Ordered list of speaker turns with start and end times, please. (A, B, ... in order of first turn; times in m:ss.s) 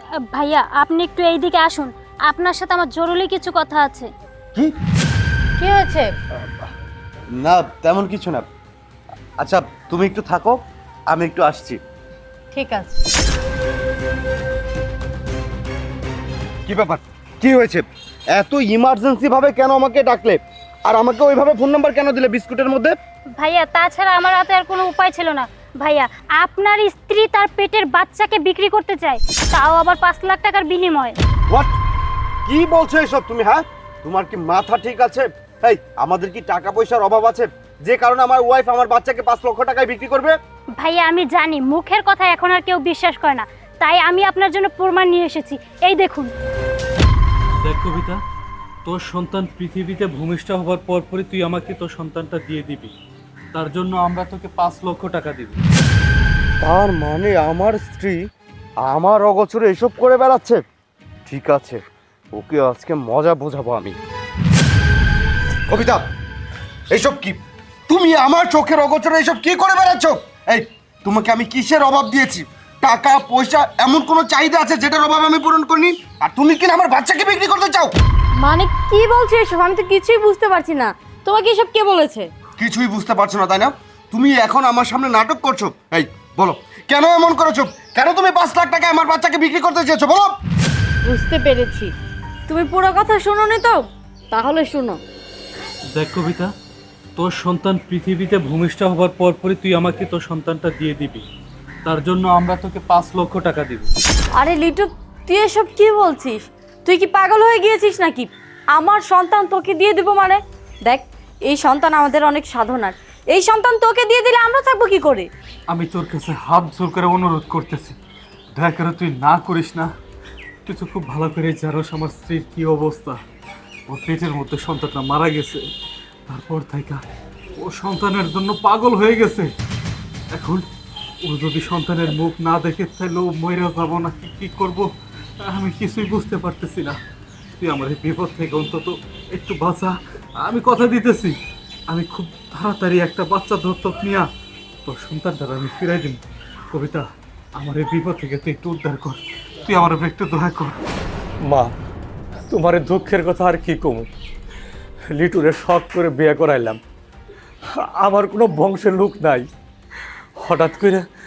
0:00.1-0:04.1 A
0:05.6-0:06.2 B
0:07.3-0:08.5 C
0:09.4-0:11.8 C
0:12.5-0:13.0 B
0:16.7-0:23.0 C
0:23.4-0:31.2 A
0:31.5-0:31.8 C
0:32.4-0:40.4 C
0:40.8-0:46.3 A
0:47.6-0:48.2 D
0:48.9-0:52.9 D
0:53.5-0:55.6 D
0:56.6-0:58.3 C
0:58.8-1:00.6 C
1:01.3-1:01.8 C
1:02.3-1:04.0 C
1:05.7-1:06.1 C
1:06.9-1:18.0 C
1:18.4-1:22.3 B
1:22.6-1:30.4 C
1:31.0-1:31.9 B
1:32.5-1:35.0 B
1:35.9-1:36.5 D
1:37.2-1:41.2 D
1:41.8-1:43.9 D
1:44.4-1:55.3 B
1:55.7-1:58.0 D
1:58.6-1:59.9 D
2:00.6-2:03.2 D
2:03.9-2:05.7 D
2:06.3-2:07.0 D
2:07.6-2:09.5 D
2:10.3-2:10.7 D
2:11.2-2:17.0 D
2:17.6-2:21.4 D
2:21.9-2:24.3 D
2:24.8-2:27.0 D
2:27.6-2:30.8 D
2:31.4-2:31.7 E
2:32.5-2:34.1 E
2:35.1-2:36.8 E
2:37.8-2:39.5 E
2:40.4-2:41.0 E